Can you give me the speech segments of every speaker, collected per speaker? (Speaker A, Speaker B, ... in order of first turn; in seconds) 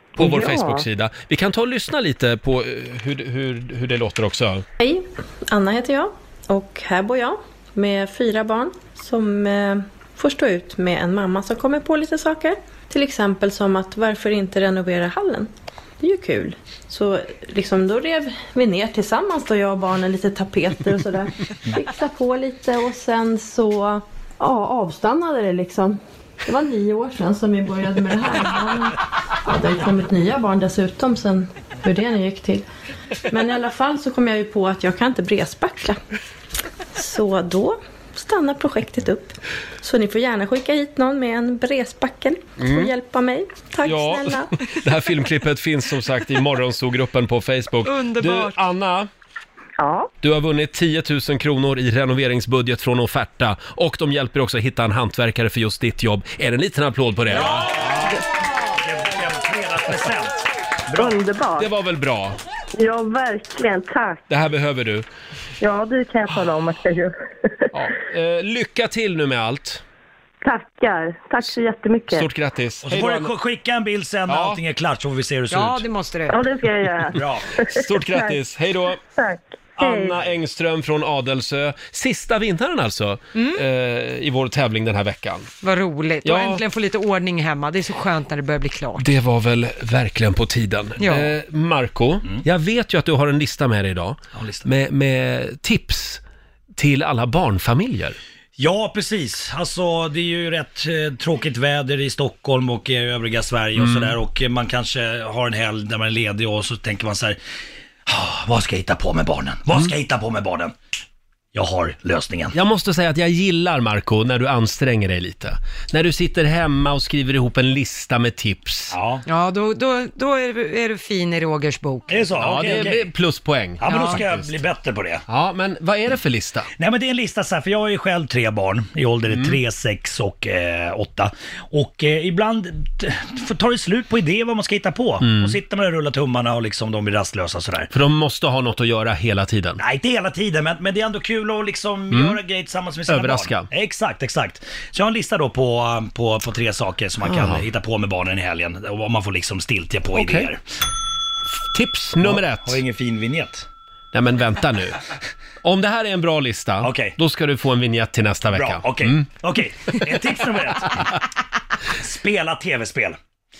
Speaker A: 0.1-4.6, 42.6-42.9, 43.8-49.1, 50.2-58.1, 61.6-62.4, 64.3-65.0, 67.7-69.8, 72.1-73.3, 74.3-74.6, 77.7-79.0, 79.8-85.5, 86.2-86.6, 89.0-96.2, 96.8-98.2, 103.8-104.1, 112.5-119.0, 122.4-124.5, 125.3-126.7, 129.3-129.6, 135.2-135.6, 137.9-139.8, 142.1-142.4, 143.1-143.7, 147.2-147.6, 150.1-150.5, 151.7-152.8, 154.1-155.0, 155.6-159.3
Speaker B: 0.2-0.8, 49.8-50.1, 61.0-61.7, 62.7-64.2, 65.6-67.1, 70.4-72.3, 76.3-78.4, 79.1-80.2
Speaker C: 4.8-32.7, 33.3-36.0, 36.9-44.5
Speaker D: 47.8-48.6, 75.5-76.4, 83.3-83.6, 85.6-89.0, 91.0-91.3, 119.3-122.3, 123.8-124.2
Speaker E: 57.3-58.2, 58.8-61.2, 72.8-75.8, 77.2-77.5, 94.3-94.7, 98.6-107.4, 108.0-110.7, 111.5-112.5, 118.9-119.2, 122.1-123.1, 123.8-125.2, 126.8-137.9, 139.8-150.6, 152.2-153.7, 156.8-157.2, 158.5-161.2, 162.0-163.2